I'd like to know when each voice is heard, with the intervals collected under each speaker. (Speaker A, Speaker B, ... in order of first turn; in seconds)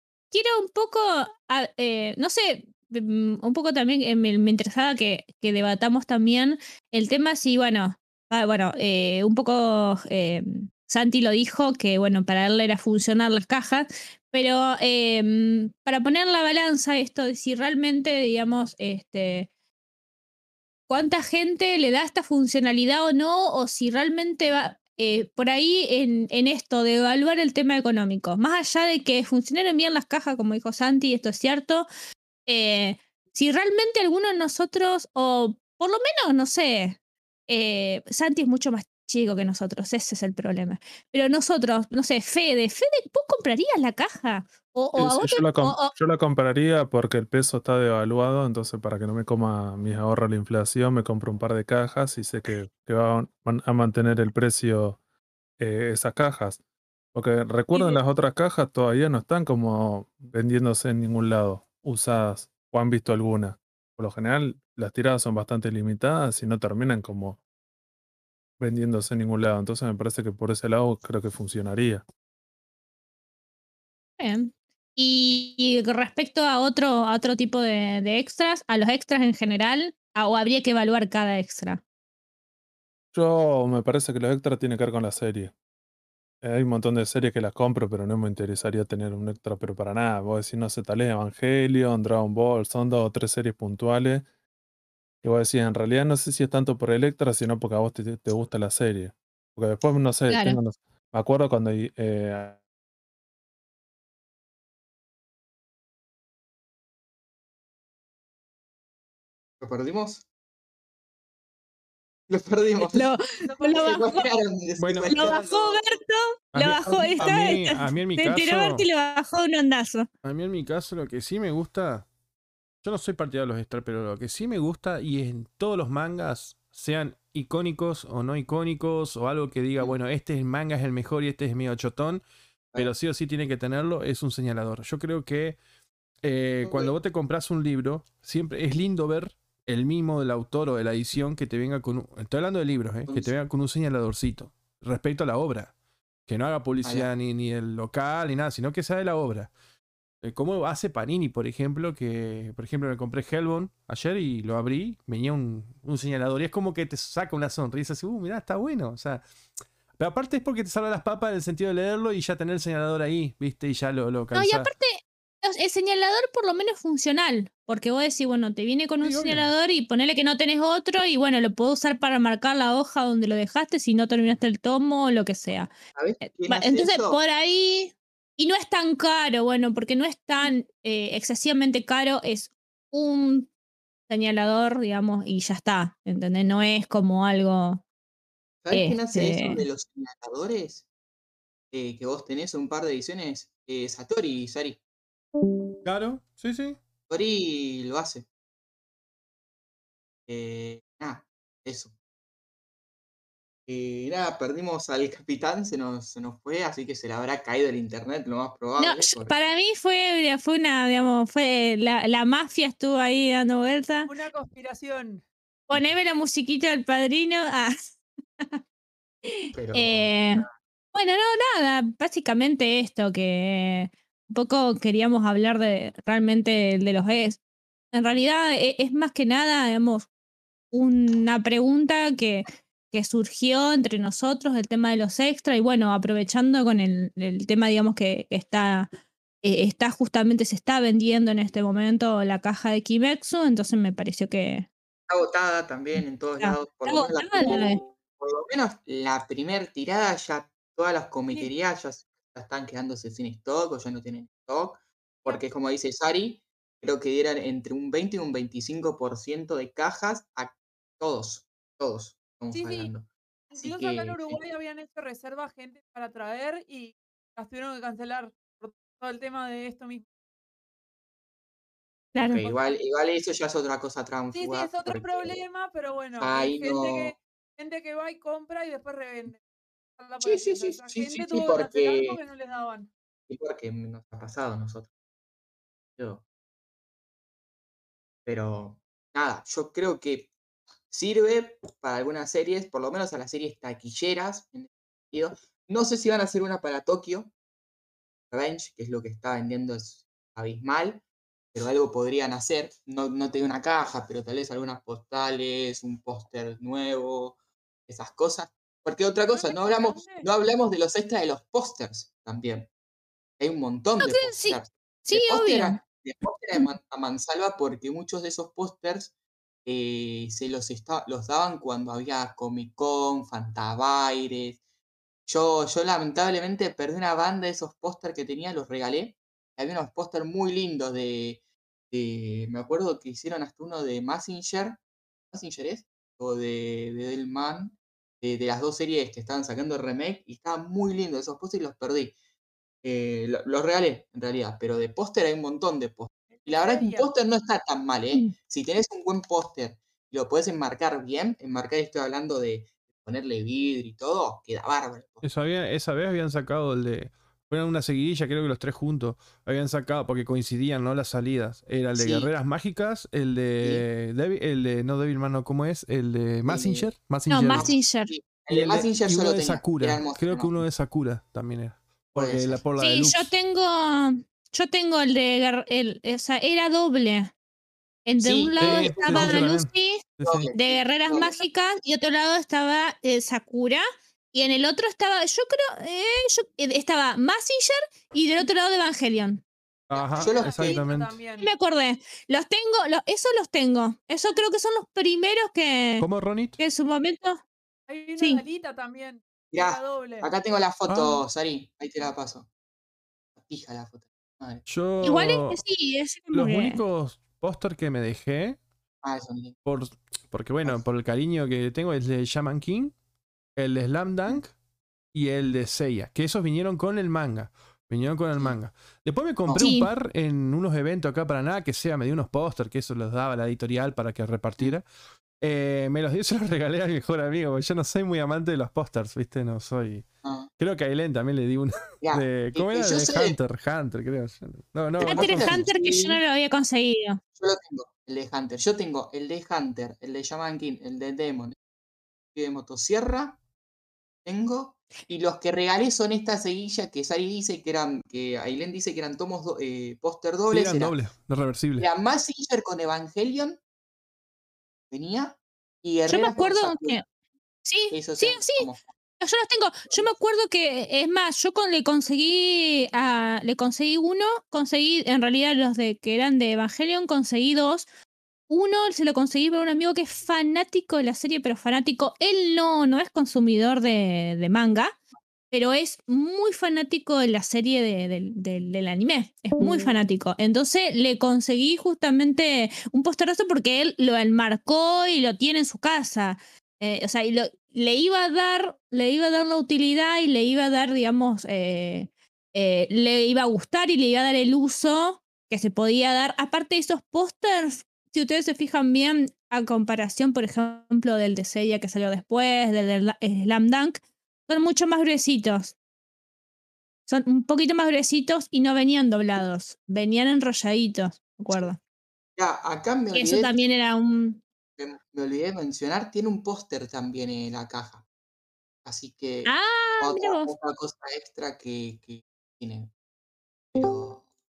Speaker A: 0.3-19.5, 20.9-31.9, 32.5-37.0, 37.5-45.9, 74.2-81.8, 100.3-100.6, 112.9-114.3, 115.1-120.1, 164.3-175.7, 176.2-183.5, 184.1-187.8, 188.7-189.7, 208.8-214.1, 215.7-217.8, 219.2-227.4, 227.9-230.1, 230.7-238.9, 239.4-244.7, 246.4-247.8, 272.1-272.5, 314.0-315.8, 367.3-368.1, 372.8-377.3, 378.1-380.0, 380.5-389.4, 391.4-396.1, 396.6-397.4, 398.2-398.4, 405.0-406.8, 419.6-419.9, 435.1-437.2, 456.1-457.0, 457.7-467.9, 468.5-475.0, 475.5-505.8, 507.1-511.8, 513.1-514.4, 519.5-520.5
Speaker B: 45.0-55.0, 55.6-56.6, 57.1-67.4, 68.6-72.0, 83.1-85.5, 86.4-94.3, 95.2-102.6
Speaker C: 109.6-110.2, 112.3-113.1, 113.7-115.8, 136.7-136.9, 146.8-147.1, 175.9-177.2, 188.6-190.8, 191.7-194.8, 197.1-198.3, 200.3-201.9, 203.7-209.3, 219.5-220.5, 245.1-264.4, 272.3-275.4, 276.2-277.2, 280.2-282.2, 283.3-284.9, 286.0-286.2, 288.2-290.3, 290.9-297.3, 298.3-312.7, 313.4-319.1, 319.6-324.6, 325.3-334.8, 335.3-342.1, 342.8-355.2, 361.9-362.3, 366.5-366.9, 367.5-370.6, 372.1-372.6, 378.2-379.4, 380.2-381.3, 389.9-390.9, 399.5-402.5, 403.4-404.6, 409.0-409.6, 430.2-430.5, 432.0-433.4, 435.0-436.2, 437.4-441.6, 442.4-443.4, 444.2-451.0, 451.8-453.6, 454.9-457.0, 457.9-458.9, 512.4-513.6, 514.8-518.0, 518.8-522.9, 523.7-524.2
Speaker D: 113.4-114.0, 214.1-215.2, 262.5-262.9, 263.5-270.1, 274.3-279.4, 280.0-282.9, 309.3-310.3, 346.3-347.1, 390.1-391.5, 397.9-400.3
Speaker E: 114.8-115.5, 116.5-118.9, 120.2-122.1, 122.8-132.2, 132.8-135.6, 136.2-145.7, 146.3-149.5, 150.2-159.2, 160.0-164.7, 169.0-169.5, 195.8-196.8, 355.2-367.7, 368.5-373.3, 378.6-380.5, 389.9-391.1, 396.0-396.6, 400.9-401.2, 404.7-405.6, 406.3-408.6, 409.6-412.9, 413.6-414.5, 415.1-424.9, 425.4-430.1, 430.6-435.7, 450.5-451.9